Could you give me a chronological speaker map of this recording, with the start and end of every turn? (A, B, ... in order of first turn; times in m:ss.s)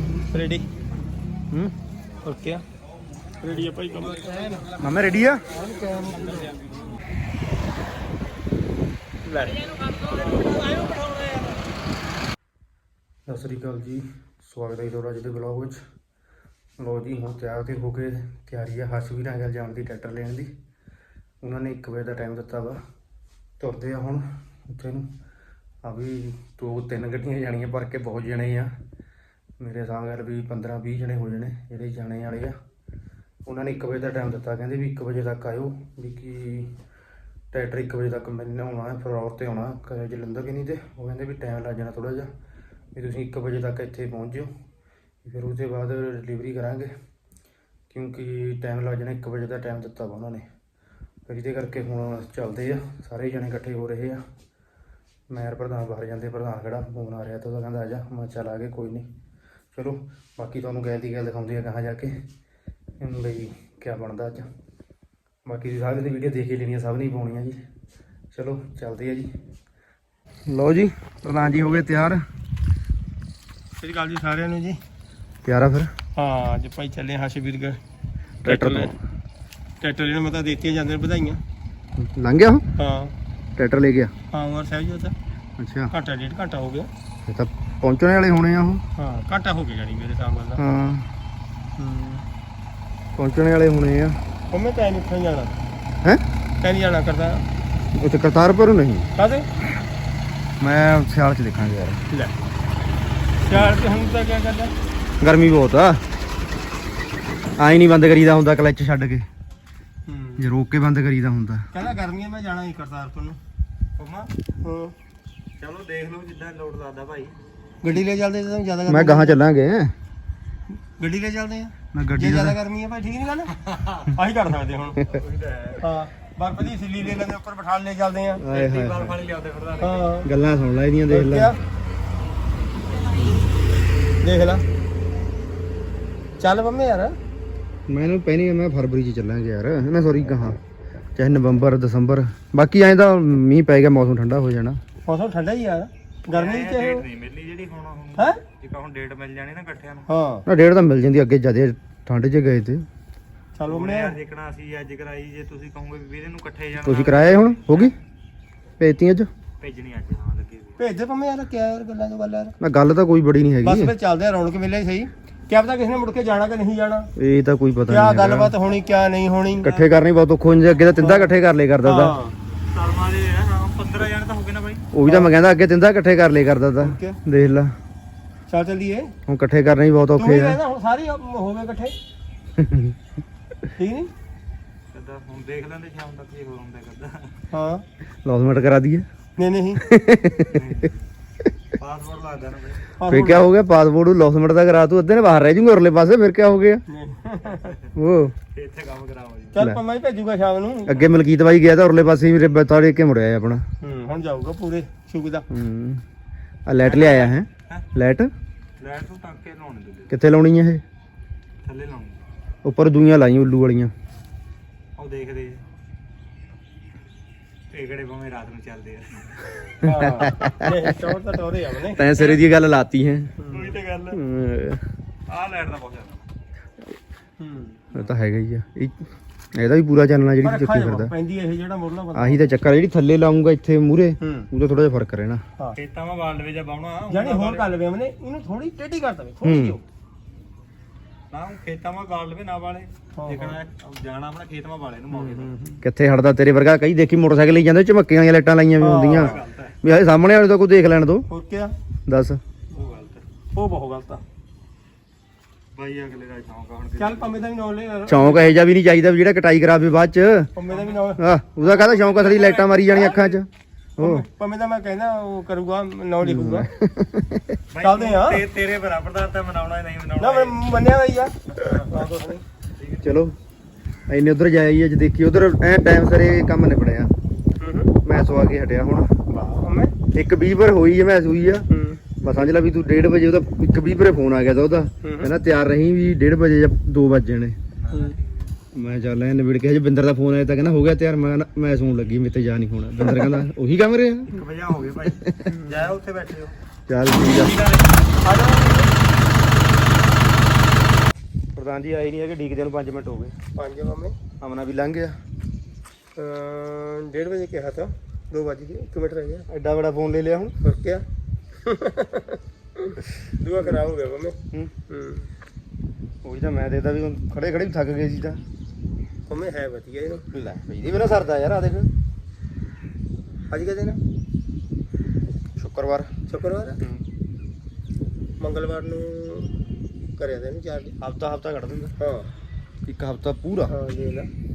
0:00.3-0:00.6 A
0:02.2-0:02.6 A
0:03.4-0:04.5 A
0:04.8-0:05.4 B
0:05.5-0:06.5 A
0:09.2-0:11.6 A
0:13.3-0:15.8 B
0:16.8-0:20.5 B
0:21.4-0:22.8 B
0:23.6-0:25.1 B
0:25.8-0:28.7 B
0:29.6-0:32.6 B
0:33.4-0:36.7 B
0:37.5-0:42.3 B
0:42.9-0:44.5 B
0:45.2-0:46.9 B
0:47.9-0:50.4 B
0:51.3-0:54.2 B
0:55.3-0:59.1 B
0:59.7-1:02.2 B
1:03.0-1:04.5 B
1:05.4-1:07.6 B
1:08.3-1:09.3 B
1:10.5-1:12.2 B
1:13.8-1:14.8 A
1:15.4-1:15.9 B
1:16.2-1:17.8 A
1:18.4-1:18.9 B
1:18.4-1:18.9 A
1:19.8-1:21.4 A
1:22.0-1:22.6 B
1:22.8-1:23.1 A
1:23.6-1:24.1 B
1:24.3-1:25.1 A
1:25.6-1:25.9 B
1:25.9-1:26.9 A
1:27.2-1:28.8 B
1:29.0-1:30.6 A
1:30.6-1:31.0 B
1:31.8-1:32.2 A
1:33.1-1:34.2 B
1:34.5-1:35.6 A
1:36.6-1:37.4 A
1:38.0-1:39.1 B
1:39.2-1:39.4 A
1:40.6-1:42.0 B
1:43.4-1:44.7 A
1:45.2-1:46.0 B
1:47.6-1:49.2 B
1:50.1-1:50.5 A
1:50.4-1:51.6 B
1:51.7-1:53.4 A
1:54.0-1:54.3 C
1:54.6-1:54.9 A
1:55.6-1:57.3 C
1:57.8-1:59.4 A
1:58.9-1:59.9 B
2:01.0-2:03.5 A
2:01.9-2:02.6 B
2:03.7-2:04.1 C
2:04.1-2:05.0 A
2:05.1-2:05.8 C
2:05.8-2:08.4 A
2:08.4-2:09.2 B
2:08.5-2:10.1 C
2:09.8-2:10.3 A
2:10.2-2:11.5 B
2:11.1-2:11.6 A
2:14.2-2:14.6 A
2:16.4-2:17.1 A
2:17.9-2:20.6 B
2:21.2-2:24.8 B
2:25.0-2:27.0 A
2:26.3-2:30.1 C
2:30.1-2:30.4 A
2:30.4-2:32.8 B
2:33.6-2:34.1 A
2:33.7-2:37.9 C
2:36.8-2:37.9 B
2:38.8-2:39.3 B
2:39.6-2:40.8 C
2:40.8-2:42.5 A
2:42.6-2:43.9 B
2:43.6-2:47.1 A
2:47.2-2:48.5 B
2:47.9-2:49.8 A
2:49.6-2:52.1 B
2:51.0-2:51.3 A
2:51.8-2:52.3 A
2:52.7-2:54.8 C
2:54.9-2:57.7 B
2:55.0-2:55.3 A
2:56.8-2:57.2 A
2:58.5-2:59.1 A
2:59.3-3:00.6 B
3:00.2-3:02.0 A
3:02.6-3:03.0 B
3:03.8-3:04.1 A
3:04.9-3:07.3 C
3:07.5-3:07.8 A
3:08.2-3:09.1 B
3:09.4-3:09.8 A
3:09.8-3:10.6 B
3:10.5-3:11.0 C
3:11.8-3:12.8 C
3:13.0-3:13.5 A
3:13.1-3:16.8 B
3:16.9-3:17.7 A
3:18.0-3:18.3 B
3:18.5-3:19.6 C
3:19.5-3:21.0 A
3:20.9-3:23.6 B
3:23.8-3:25.4 A
3:25.5-3:26.0 B
3:26.6-3:28.3 B
3:27.0-3:27.8 C
3:28.8-3:30.1 C
3:30.1-3:30.8 B
3:31.6-3:32.2 C
3:32.6-3:33.9 B
3:35.0-3:35.6 C
3:37.7-3:39.8 C
3:39.8-3:42.0 A
3:39.8-3:40.7 B
3:41.9-3:43.3 B
3:42.1-3:42.4 C
3:43.4-3:43.7 A
3:43.5-3:44.2 C
3:44.1-3:44.8 B
3:45.3-3:46.2 C
3:47.4-3:47.8 A
3:47.9-3:49.0 B
3:49.5-3:51.1 B
3:50.4-3:52.5 A
3:52.1-3:55.4 B
3:54.2-3:54.5 A
3:55.8-3:57.7 C
3:57.1-3:59.8 A
3:59.4-3:59.8 B
4:01.3-4:05.5 C
4:03.2-4:03.6 A
4:05.1-4:05.8 A
4:05.8-4:11.2 B
4:08.8-4:09.4 A
4:09.1-4:09.7 C
4:11.3-4:11.7 A
4:12.1-4:12.4 B
4:12.7-4:13.2 C
4:13.5-4:14.2 A
4:15.8-4:17.4 C
4:17.0-4:18.7 A
4:18.1-4:20.5 B
4:20.6-4:21.2 A
4:20.7-4:21.0 C
4:21.2-4:24.2 B
4:21.8-4:23.3 C
4:24.0-4:26.7 A
4:26.2-4:27.6 B
4:27.7-4:30.6 C
4:27.8-4:28.4 A
4:30.2-4:32.4 A
4:32.8-4:33.0 C
4:33.0-4:33.3 B
4:34.1-4:37.1 B
4:37.6-4:37.9 A
4:38.0-4:39.1 B
4:39.3-4:39.9 A
4:40.1-4:41.6 B
4:41.7-4:42.0 A
4:42.2-4:47.6 B
4:45.0-4:45.3 A
4:47.9-4:48.2 A
4:48.7-4:54.3 B
4:54.3-4:56.5 C
4:56.9-4:57.6 B
4:57.3-4:58.0 C
4:58.2-4:58.9 A
5:01.5-5:03.3 B
5:03.6-5:04.1 A
5:04.4-5:05.2 B
5:06.2-5:09.5 A
5:09.5-5:10.5 B
5:10.6-5:11.0 A
5:11.6-5:14.4 A
5:14.9-5:15.3 A
5:16.2-5:18.4 B
5:19.3-5:20.2 A
5:20.3-5:21.9 B
5:23.5-5:24.0 A
5:25.6-5:26.1 B
5:26.3-5:26.8 A
5:28.4-5:29.6 A
5:30.2-5:31.0 A
5:31.0-5:31.9 B
5:32.0-5:32.3 A
5:32.8-5:33.7 B
5:33.7-5:34.3 A